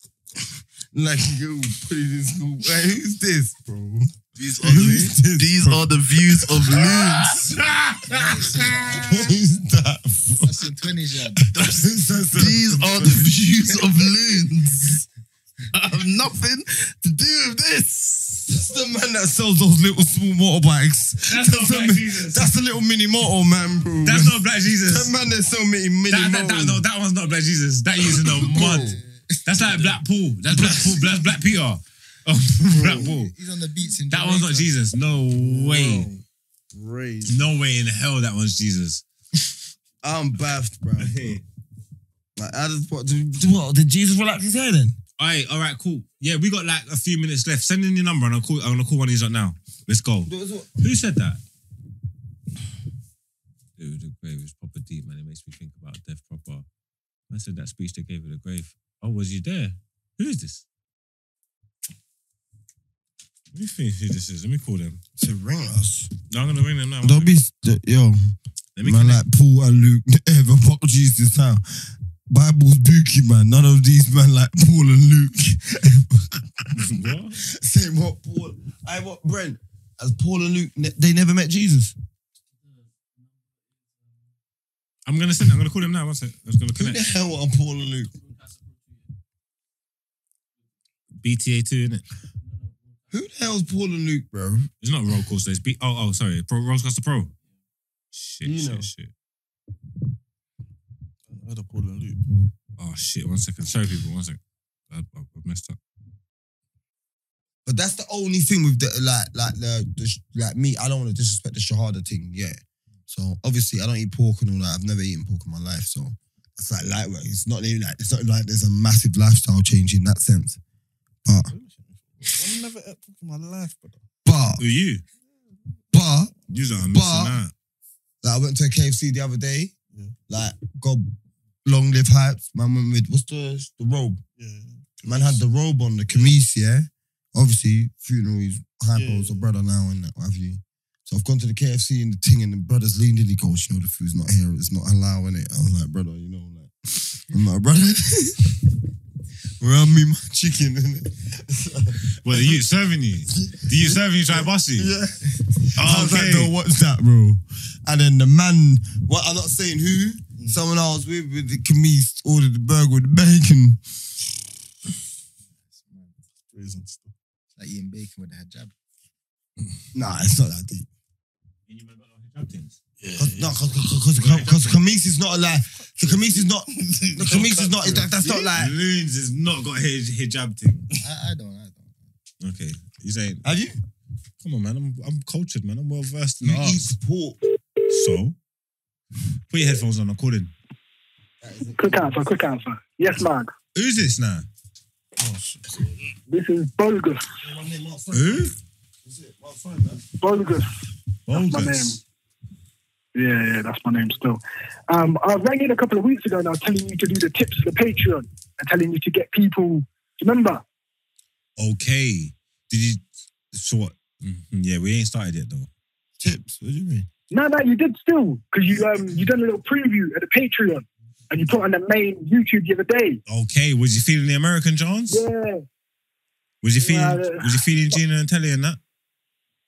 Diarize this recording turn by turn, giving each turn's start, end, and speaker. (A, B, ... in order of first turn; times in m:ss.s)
0:00.9-0:07.4 A
0:04.4-0:07.5 B
0:04.7-0:05.0 C
0:06.7-0:09.0 C
0:08.1-0:09.3 D
0:08.8-0:10.6 A
0:10.4-0:11.4 D
0:11.5-0:15.0 B
0:11.6-0:13.8 A
0:15.7-0:18.5 B
0:18.5-0:26.8 A
0:21.3-0:22.5 C
0:24.0-0:25.1 C
0:26.1-0:33.3 C
0:28.1-0:29.0 A
0:28.4-0:29.6 D
0:29.6-0:29.9 B
0:30.5-0:31.1 A
0:32.7-0:33.1 A
0:32.7-0:34.8 D
0:34.1-0:36.1 C
0:35.3-0:37.5 B
0:37.3-0:39.0 C
0:40.0-0:41.4 A
0:41.0-0:41.4 C
0:42.4-0:45.0 A
0:45.2-0:51.4 C
0:50.3-0:50.7 A
0:53.8-0:56.7 C
0:57.3-1:00.6 C
1:03.5-1:05.0 C
1:05.2-1:06.1 A
1:06.3-1:07.4 C
1:07.0-1:08.3 A
1:08.8-1:09.2 C
1:08.8-1:11.6 A
1:12.3-1:21.9 A
1:16.8-1:17.4 C
1:25.1-1:27.1 C
1:26.8-1:28.1 A
1:31.2-1:32.0 C
1:33.1-1:34.7 A
1:34.8-1:37.3 C
1:38.1-1:39.1 C
1:38.4-1:38.9 A
1:41.3-1:42.2 B
1:42.8-1:44.4 C
1:44.9-1:45.8 C
1:47.7-2:00.6 A
2:01.2-2:01.5 A
2:01.5-2:04.0 B
2:04.2-2:04.6 A
2:04.6-2:05.0 C
2:05.9-2:06.3 A
2:06.5-2:07.5 C
2:06.9-2:07.4 A
2:08.2-2:09.7 A
2:10.3-2:11.1 A
2:11.6-2:14.2 A
2:14.4-2:15.4 B
2:15.0-2:28.6 A
2:19.0-2:19.5 B
2:29.6-2:32.6 A
2:32.2-2:34.9 C
2:33.3-2:43.8 A
2:35.8-2:36.5 C
2:45.7-2:46.1 D
2:46.5-2:47.1 B
2:47.6-2:48.7 D
2:49.9-2:50.9 A
2:51.7-2:52.8 C
2:53.0-2:53.6 B
2:53.2-2:58.7 A
2:54.1-2:54.8 C
2:55.4-2:58.5 B
2:58.6-3:00.9 C
3:01.0-3:02.0 D
3:02.4-3:03.4 C
3:03.4-3:03.8 A
3:04.4-3:06.9 C
3:06.4-3:07.4 A
3:07.9-3:08.4 C
3:09.5-3:10.5 C
3:11.4-3:12.3 A
3:11.8-3:13.5 E
3:13.8-3:14.5 C
3:15.2-3:16.1 B
3:16.3-3:17.2 E
3:17.4-3:18.5 A
3:18.1-3:18.5 C
3:19.0-3:20.1 A
3:20.2-3:20.7 E
3:21.3-3:22.0 C
3:21.3-3:22.0 E
3:23.2-3:30.6 E
3:31.6-3:35.7 C
3:36.2-3:37.1 A
3:37.3-3:43.2 E
3:43.3-3:45.2 C
3:45.1-3:45.6 E
3:46.6-3:48.8 C
3:46.8-3:48.0 E